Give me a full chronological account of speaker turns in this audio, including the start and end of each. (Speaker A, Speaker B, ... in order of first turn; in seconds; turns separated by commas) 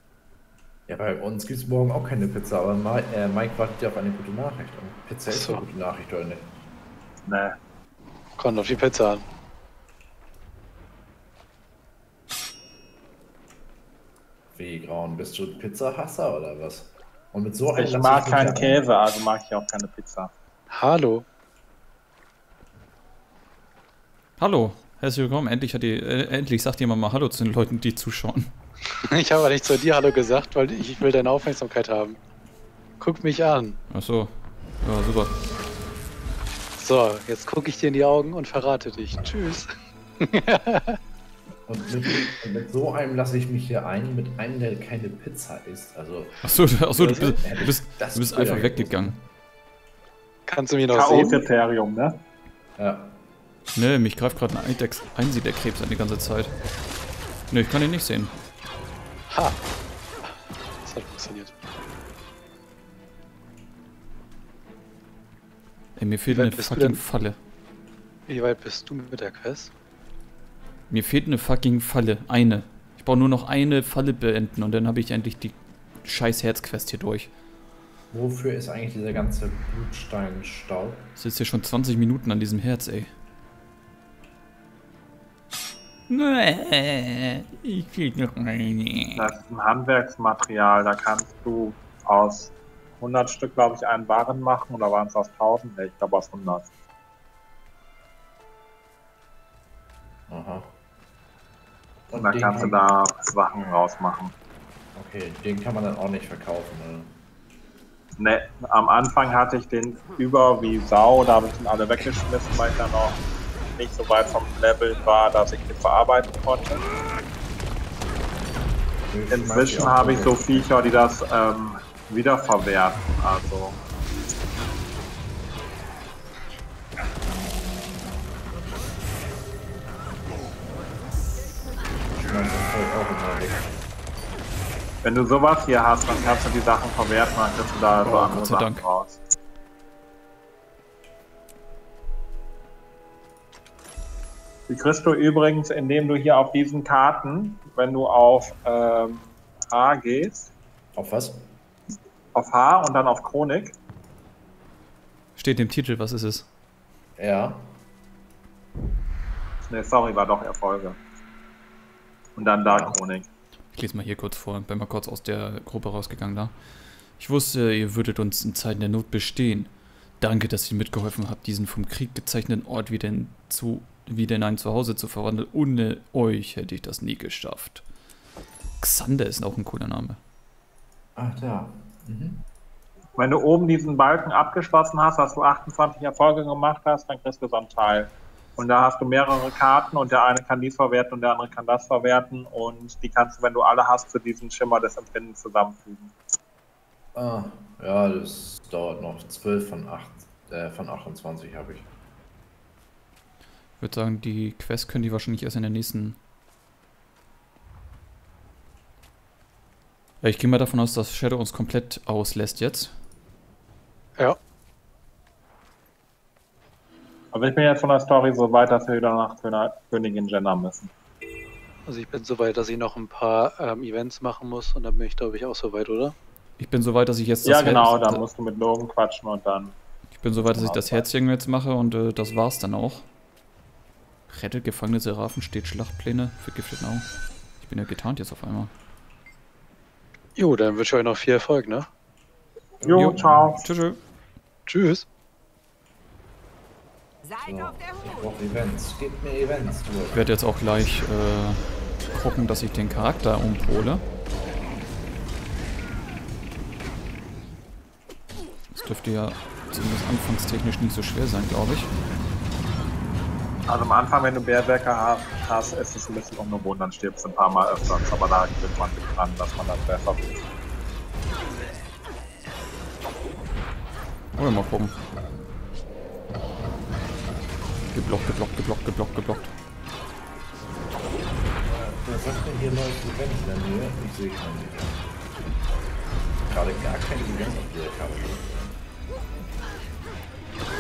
Speaker A: 0.9-6.5, Speaker B: 5.3-5.6, Speaker C: 7.3-7.5, Speaker B: 8.4-9.3, Speaker A: 14.5-18.9, Speaker C: 17.8-20.3, Speaker B: 20.7-21.2, Speaker D: 24.4-28.5, Speaker B: 29.1-32.2, Speaker B: 33.0-33.8, Speaker D: 33.9-35.4, Speaker B: 36.8-41.0, Speaker A: 41.7-46.4, Speaker D: 46.4-49.1, Speaker A: 47.0-49.2, Speaker B: 50.5-51.5, Speaker C: 50.9-52.2, Speaker A: 52.8-53.1, Speaker D: 53.8-56.5, Speaker D: 57.5-58.3, Speaker B: 59.3-59.6, Speaker B: 60.8-61.6, Speaker D: 66.0-67.4, Speaker B: 66.3-67.1, Speaker B: 68.3-69.7, Speaker D: 70.9-77.3, Speaker A: 78.1-81.1, Speaker D: 81.2-83.1, Speaker D: 86.1-89.3, Speaker C: 89.2-96.7, Speaker A: 100.3-100.7, Speaker A: 102.1-102.9, Speaker C: 102.1-104.3, Speaker A: 105.0-107.2, Speaker C: 108.2-113.2, Speaker C: 113.8-116.8, Speaker A: 119.1-120.8, Speaker C: 119.3-123.8, Speaker A: 132.2-133.7, Speaker C: 135.0-139.2, Speaker D: 138.0-138.8, Speaker C: 144.7-150.5, Speaker A: 150.9-151.5, Speaker C: 152.3-153.8, Speaker D: 155.4-156.5, Speaker A: 157.2-157.8, Speaker C: 159.7-161.0, Speaker C: 162.4-163.3, Speaker A: 162.7-163.0, Speaker D: 163.7-166.6, Speaker D: 167.1-177.8, Speaker D: 178.8-180.2, Speaker A: 181.2-182.4, Speaker C: 183.2-196.2, Speaker A: 197.2-201.9, Speaker D: 203.8-206.2, Speaker D: 210.2-212.9, Speaker C: 217.3-220.9, Speaker B: 221.9-226.2, Speaker D: 226.6-228.2, Speaker C: 227.4-229.8, Speaker D: 230.1-233.1, Speaker A: 230.4-231.1, Speaker D: 234.3-237.1, Speaker D: 237.6-238.7, Speaker B: 240.4-241.9, Speaker C: 242.8-243.7, Speaker D: 242.8-244.0, Speaker B: 244.7-245.1, Speaker A: 247.4-250.3, Speaker D: 250.1-254.0, Speaker D: 258.7-261.9, Speaker C: 263.7-270.4, Speaker D: 274.4-275.0, Speaker D: 277.9-279.5, Speaker A: 281.6-285.0, Speaker A: 286.5-288.8